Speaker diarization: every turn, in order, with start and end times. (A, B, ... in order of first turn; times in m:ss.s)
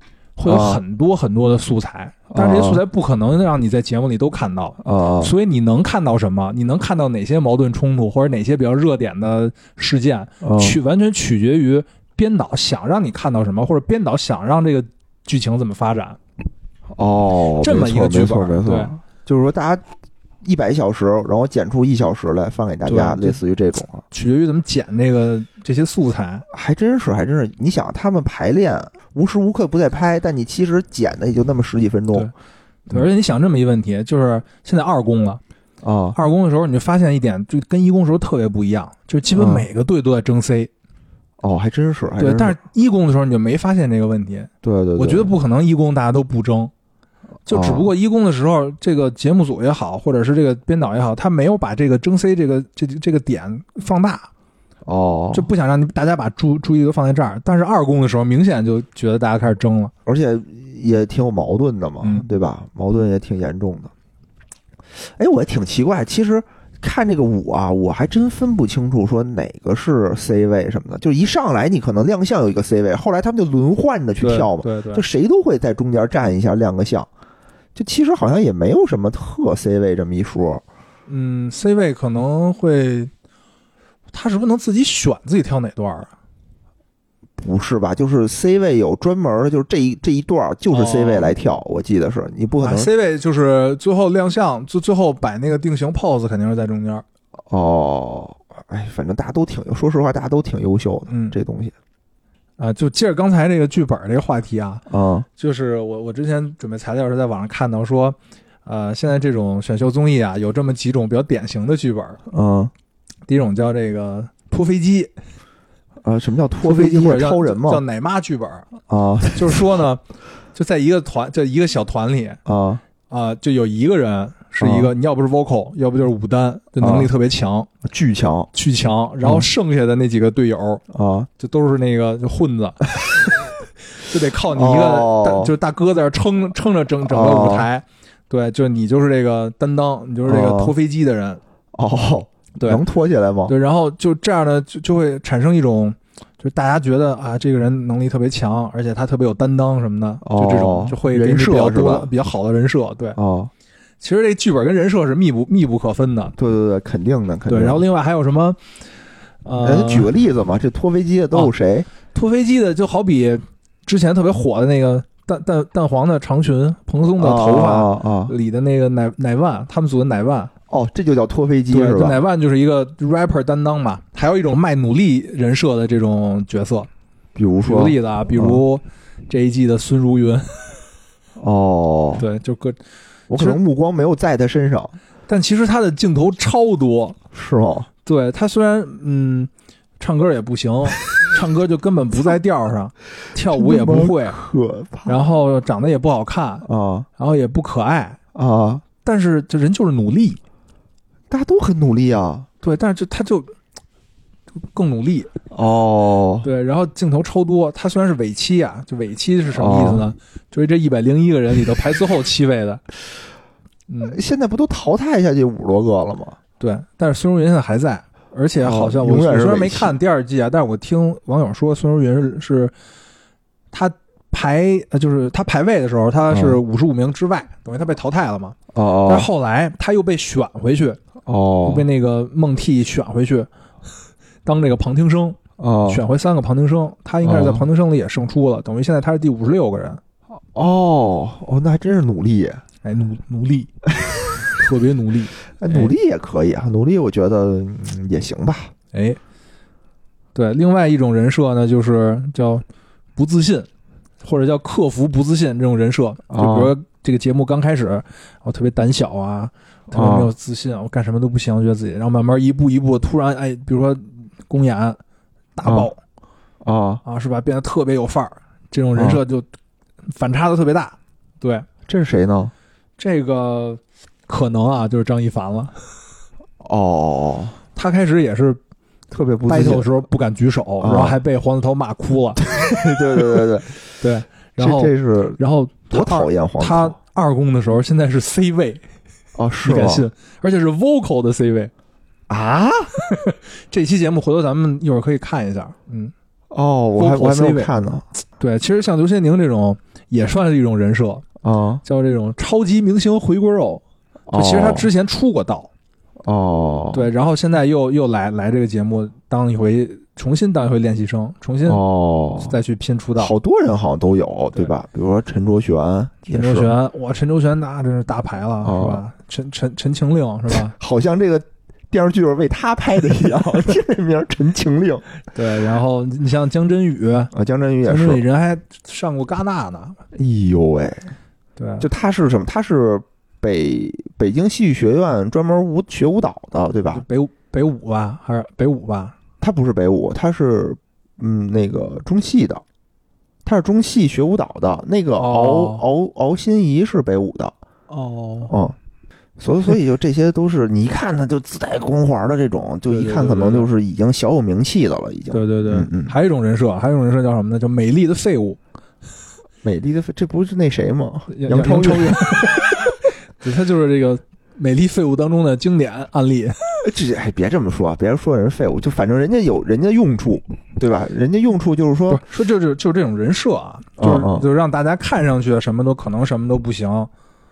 0:00.4-0:16.2 A
0:00.4-0:00.8 B
0:02.4-0:02.8 B
0:04.8-0:05.3 B
0:10.4-0:10.8 B
0:16.9-0:19.8 B
0:17.6-0:18.9 A
0:20.4-0:24.0 B
0:22.9-0:23.4 A
0:24.1-0:26.5 A
0:26.5-0:32.3 B
0:32.9-0:35.4 A
0:35.8-0:36.2 B
0:36.2-0:40.7 A
0:39.3-0:39.7 B
0:41.4-0:42.6 B
0:42.2-0:46.7 A
0:44.6-0:45.3 B
0:47.5-0:54.3 A
0:47.5-0:47.9 B
0:54.8-0:55.5 B
0:55.3-0:59.9 A
1:00.1-1:03.9 B
1:02.0-1:02.3 A
1:05.2-1:17.1 B
1:14.2-1:15.0 A
1:17.8-1:20.6 B
1:21.1-1:23.1 A
1:24.1-1:26.1 A
1:27.4-1:32.9 B
1:30.7-1:31.3 A
1:32.6-1:37.0 A
1:37.5-1:41.7 B
1:41.1-1:41.4 A
1:42.6-1:44.8 A
1:44.9-1:45.3 B
1:45.4-1:52.2 A
1:52.3-1:52.7 B
1:53.3-1:55.1 A
1:56.0-1:57.8 B
1:56.6-1:58.7 A
1:58.9-1:59.8 B
1:59.3-2:00.0 A
2:00.6-2:02.4 A
2:02.5-2:02.8 B
2:03.1-2:07.7 A
2:04.6-2:04.9 B
2:06.8-2:07.1 B
2:07.8-2:08.5 B
2:08.5-2:10.8 A
2:10.9-2:11.3 B
2:11.4-2:12.9 A
2:14.0-2:21.4 A
2:14.5-2:15.5 B
2:17.0-2:17.7 B
2:20.3-2:20.8 B
2:21.8-2:23.5 B
2:22.6-2:22.8 A
2:23.5-2:33.2 A
2:30.2-2:32.1 B
2:33.2-2:33.5 B
2:34.0-2:36.4 A
2:36.4-2:37.8 B
2:37.5-2:38.6 A
2:39.4-2:40.1 A
2:39.6-2:41.9 B
2:42.1-2:50.5 A
2:47.2-2:48.3 B
2:50.7-2:52.2 B
2:51.7-2:56.9 A
2:57.4-2:58.6 B
2:57.6-3:00.8 A
3:01.4-3:02.2 B
3:02.2-3:02.8 A
3:03.3-3:05.0 B
3:05.3-3:07.2 A
3:07.3-3:07.9 B
3:08.0-3:14.4 A
3:13.5-3:15.2 B
3:15.1-3:16.7 A
3:16.6-3:17.1 B
3:17.2-3:18.2 A
3:18.3-3:18.8 B
3:19.0-3:20.4 A
3:21.3-3:22.5 B
3:22.6-3:23.5 A
3:24.6-3:25.3 A
3:25.5-3:26.5 B
3:26.4-3:32.8 A
3:29.5-3:30.1 B
3:33.9-3:34.2 A
3:34.1-3:36.4 B
3:36.6-3:42.7 A
3:38.6-3:39.9 B
3:43.7-3:51.0 A
3:46.3-3:46.6 B
3:48.7-3:49.3 B
3:51.2-3:51.9 B
3:51.6-3:53.5 A
3:54.4-4:00.0 A
3:55.6-3:56.0 B
3:57.2-3:57.6 B
4:00.5-4:02.6 B
4:02.8-4:03.7 A
4:04.0-4:04.5 B
4:04.6-4:05.9 A
4:05.6-4:08.7 B
4:08.9-4:09.2 A
4:10.4-4:12.6 A
4:13.2-4:13.7 A
4:14.2-4:25.0 A
4:16.3-4:16.7 B
4:19.9-4:20.3 B
4:25.6-4:26.0 A
4:25.6-4:25.9 B
4:26.6-4:27.0 B
4:27.0-4:29.5 A
4:29.0-4:29.2 B
4:30.1-4:31.7 A
4:31.9-4:32.5 B
4:33.0-4:35.7 A
4:36.6-4:37.6 B
4:37.8-4:38.6 A
4:39.1-4:39.9 B
4:39.5-4:42.7 A
4:40.8-4:41.2 B
4:42.4-4:43.8 B
4:44.0-4:48.8 A
4:44.6-4:47.0 B
4:49.4-4:50.1 B
4:49.6-4:51.7 A
4:52.3-4:53.0 B
4:53.0-4:56.1 A
4:56.5-4:58.0 B
4:57.0-4:57.7 A
4:58.4-5:01.3 A
5:01.4-5:01.8 B
5:01.8-5:05.7 A
5:04.3-5:04.9 B
5:06.2-5:07.1 B
5:06.9-5:11.8 A
5:11.7-5:12.6 B
5:12.4-5:13.3 A
5:13.2-5:16.7 B
5:16.3-5:20.8 A
5:18.6-5:19.0 B
5:20.5-5:25.0 B
5:25.3-5:27.3 A
5:27.3-5:28.2 B
5:27.8-5:30.0 A
5:30.1-5:31.1 B
5:31.6-5:31.9 A
5:31.8-5:37.0 B
5:36.9-5:39.2 A
5:39.4-5:42.6 B
5:43.4-5:47.6 B
5:45.2-5:45.9 A
5:47.9-5:48.6 A
5:48.5-5:48.8 B
5:49.4-5:56.1 B
5:52.9-5:53.7 A
5:55.3-5:58.6 A
5:59.6-6:02.6 B
6:01.3-6:02.7 A
6:03.4-6:06.6 A
6:06.8-6:12.2 B
6:12.1-6:17.1 A
6:14.0-6:14.4 B